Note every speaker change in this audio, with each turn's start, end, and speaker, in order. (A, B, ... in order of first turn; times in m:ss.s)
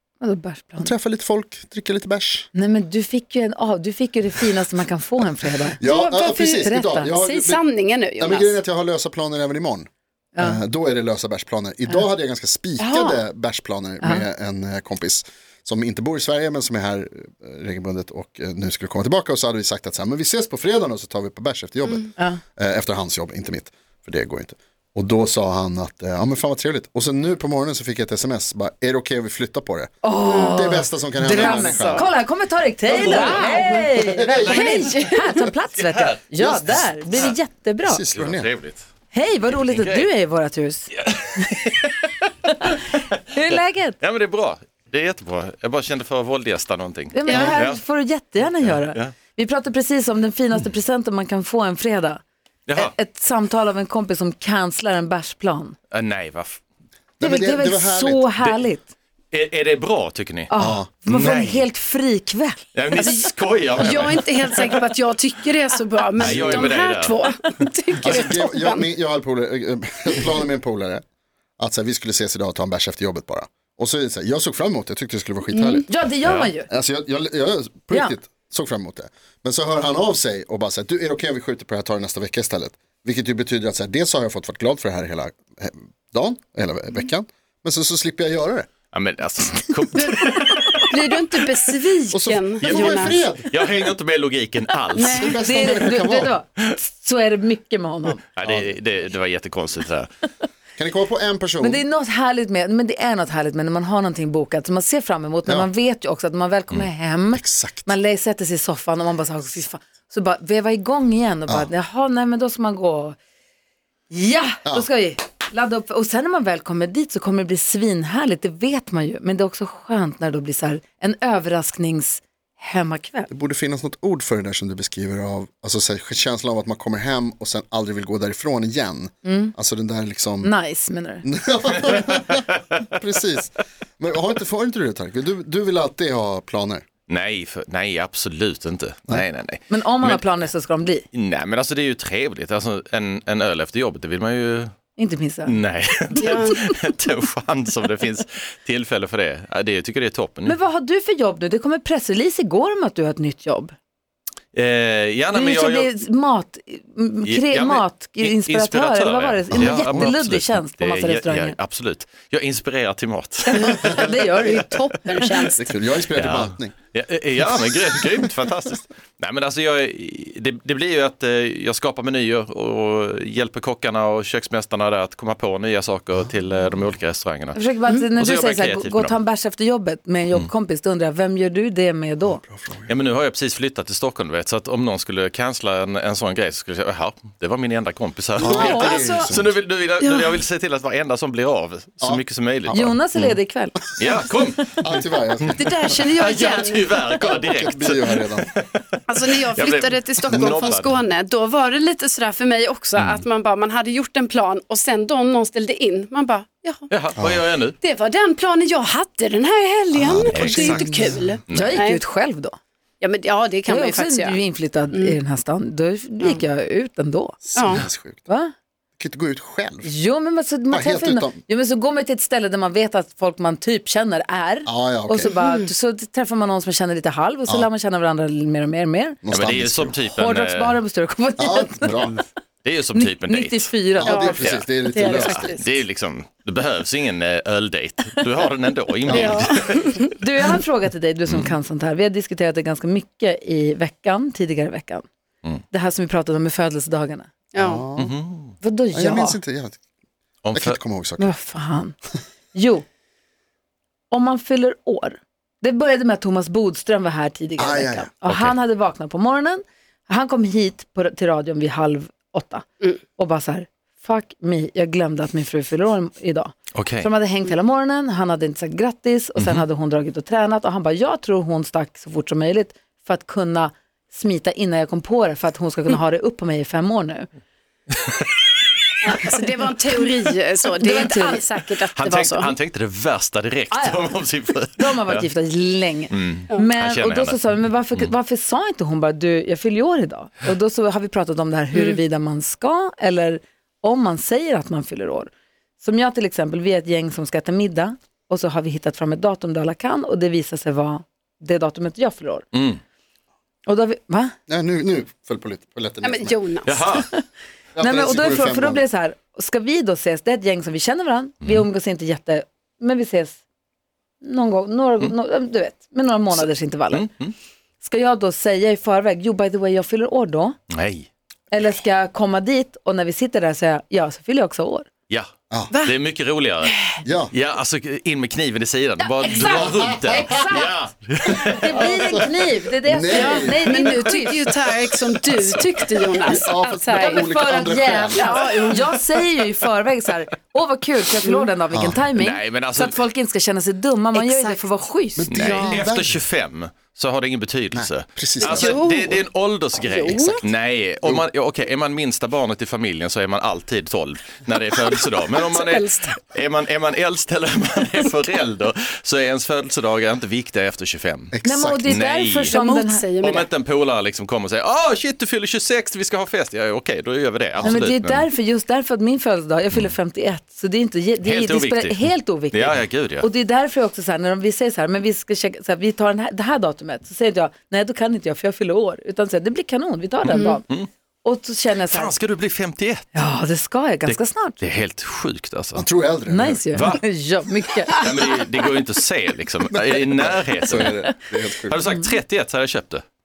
0:00.2-0:00.9 A
0:00.8-0:02.5 B
0:02.5-0:05.8 A
0:05.8-0:07.6 B
0:05.8-0:08.6 C
0:06.6-0:07.1 A
0:08.2-0:32.1 B
0:12.8-0:13.2 A
0:30.0-0:38.0 A
0:30.3-0:30.6 C
0:31.2-0:32.1 C
0:32.9-0:33.5 D
0:32.9-0:33.9 C
0:33.0-0:35.0 B
0:34.5-0:35.3 C
0:34.5-0:35.1 D
0:35.7-0:36.2 D
0:36.4-0:37.3 B
0:37.8-0:38.5 B
0:38.2-0:38.9 D
0:39.1-0:41.5 A
0:39.5-0:40.1 D
0:41.0-0:42.1 D
0:42.5-0:42.8 A
0:43.3-0:44.0 A
0:44.0-0:47.8 D
0:47.1-0:52.2 A
0:47.3-0:47.6 C
0:48.6-0:49.1 D
0:52.7-0:52.9 D
0:52.8-0:55.8 A
0:55.9-0:56.6 D
0:57.2-0:58.3 B
0:57.2-0:58.9 A
0:59.3-1:00.6 D
1:00.5-1:02.7 A
1:00.6-1:00.9 B
1:01.1-1:01.7 D
1:02.7-1:04.5 D
1:03.0-1:08.9 C
1:06.2-1:07.2 D
1:06.2-1:06.6 B
1:08.0-1:11.0 B
1:11.6-1:16.0 B
1:15.5-1:15.8 C
1:15.9-1:16.7 A
1:16.2-1:16.5 D
1:16.7-1:28.7 B
1:28.9-1:31.0 D
1:30.9-1:33.3 C
1:32.1-1:33.4 B
1:32.6-1:35.8 D
1:35.0-1:35.4 C
1:35.1-1:36.4 B
1:35.4-1:38.2 A
1:38.3-1:40.1 D
1:38.4-1:38.8 B
1:40.8-1:41.8 B
1:41.6-1:53.2 A
1:47.3-1:47.9 B
1:54.1-2:03.3 A
2:03.3-2:10.5 B
2:09.2-2:09.5 A
2:10.4-2:11.2 A
2:11.2-2:16.8 B
2:17.1-2:20.5 D
2:19.7-2:21.0 A
2:21.1-2:24.7 D
2:25.0-2:25.6 A
2:25.4-2:30.6 D
2:26.2-2:26.7 A
2:26.2-2:26.6 C
2:30.4-2:33.8 A
2:34.5-2:35.9 D
2:35.3-2:41.6 A
2:37.3-2:44.1 D
2:39.6-2:40.1 B
2:43.5-2:45.5 A
2:44.4-2:45.8 C
2:45.6-2:46.8 B
2:46.1-2:57.6 D
2:57.5-3:02.4 A
2:58.2-2:59.2 D
3:02.2-3:02.9 B
3:02.9-3:13.0 D
3:08.4-3:09.6 B
3:08.4-3:09.2 A
3:10.0-3:10.4 C
3:12.0-3:13.4 B
3:12.7-3:13.8 A
3:14.0-3:14.9 D
3:14.8-3:16.0 B
3:15.4-3:21.0 D
3:15.6-3:17.0 C
3:17.4-3:18.5 B
3:19.1-3:26.9 C
3:20.3-3:20.7 B
3:23.0-3:23.2 D
3:26.9-3:27.8 D
3:27.2-3:27.4 B
3:27.8-3:32.0 C
3:29.9-3:31.4 B
3:30.3-3:30.9 D
3:31.5-3:32.6 A
3:31.5-3:31.8 D
3:33.0-3:34.4 C
3:33.7-3:37.4 A
3:37.4-3:38.3 B
3:37.6-3:37.8 C
3:38.3-3:38.5 A
3:39.0-3:39.9 B
3:39.8-3:49.2 A
3:40.7-3:41.4 B
3:44.7-3:45.3 B
3:45.2-3:45.7 C
3:49.2-3:50.0 B
3:49.3-3:50.8 D
3:50.1-3:52.2 A
3:51.4-3:52.2 B
3:52.6-3:53.7 D
3:52.9-3:54.4 A
3:54.0-3:55.5 B
3:54.0-3:55.7 C
3:54.4-3:59.9 D
3:59.1-3:59.5 B
3:59.1-4:00.2 C
4:00.2-4:05.1 A
4:01.3-4:01.5 D
4:05.7-4:07.3 A
4:07.5-4:07.8 C
4:07.6-4:08.1 B
4:08.0-4:08.6 D
4:08.6-4:09.4 A
4:08.9-4:09.8 B
4:10.4-4:10.8 D
4:10.5-4:11.3 B
4:11.2-4:12.0 A
4:12.5-4:12.8 A
4:14.1-4:37.3 A
4:17.6-4:18.1 B
4:18.3-4:18.6 D
4:26.7-4:27.1 D
4:29.4-4:29.6 D
4:39.0-4:42.5 C
4:40.8-4:41.5 A
4:42.0-4:45.3 D
4:43.7-5:02.5 A
4:46.1-4:47.4 D
5:02.5-5:02.8 D
5:03.7-5:04.4 A
5:04.5-5:06.4 B
5:06.0-5:07.0 C
5:06.6-5:07.1 D
5:07.8-5:08.9 B
5:07.8-5:13.4 A
5:11.4-5:11.7 D
5:14.2-5:17.1 A
5:16.4-5:17.4 D
5:17.8-5:20.6 A
5:20.7-5:21.1 D
5:21.5-5:24.9 A
5:25.8-5:26.8 D
5:26.7-5:27.0 C
5:27.0-5:27.3 B
5:27.3-5:32.0 D
5:29.0-5:29.8 C
5:29.3-5:30.8 A
5:31.4-5:34.5 A
5:31.8-5:34.0 B
5:33.1-5:37.2 C
5:36.2-5:38.6 B
5:36.6-5:45.7 A
5:38.1-5:39.2 C
5:41.7-5:42.0 B
5:42.2-5:43.0 D
5:44.2-5:44.6 C
5:45.2-5:46.2 B
5:45.3-6:02.6 D
5:45.4-5:45.7 C
5:47.7-5:48.8 B
5:48.4-5:49.2 C
5:49.9-5:50.4 C
5:50.1-5:50.4 B
5:55.3-5:56.2 C
6:01.3-6:02.0 B
6:01.4-6:03.1 A
6:02.5-6:03.5 C
6:03.2-6:08.3 D
6:07.6-6:07.8 B
6:07.6-6:20.6 A
6:11.2-6:13.3 D
6:20.3-6:20.6 C
6:20.3-6:20.9 D
6:21.2-6:22.1 A
6:21.8-6:23.2 D
6:23.1-6:24.6 A
6:24.0-6:25.9 D
6:25.8-6:26.6 B
6:26.3-6:28.1 A
6:26.7-6:27.0 D
6:27.9-6:33.0 D
6:29.7-6:31.8 B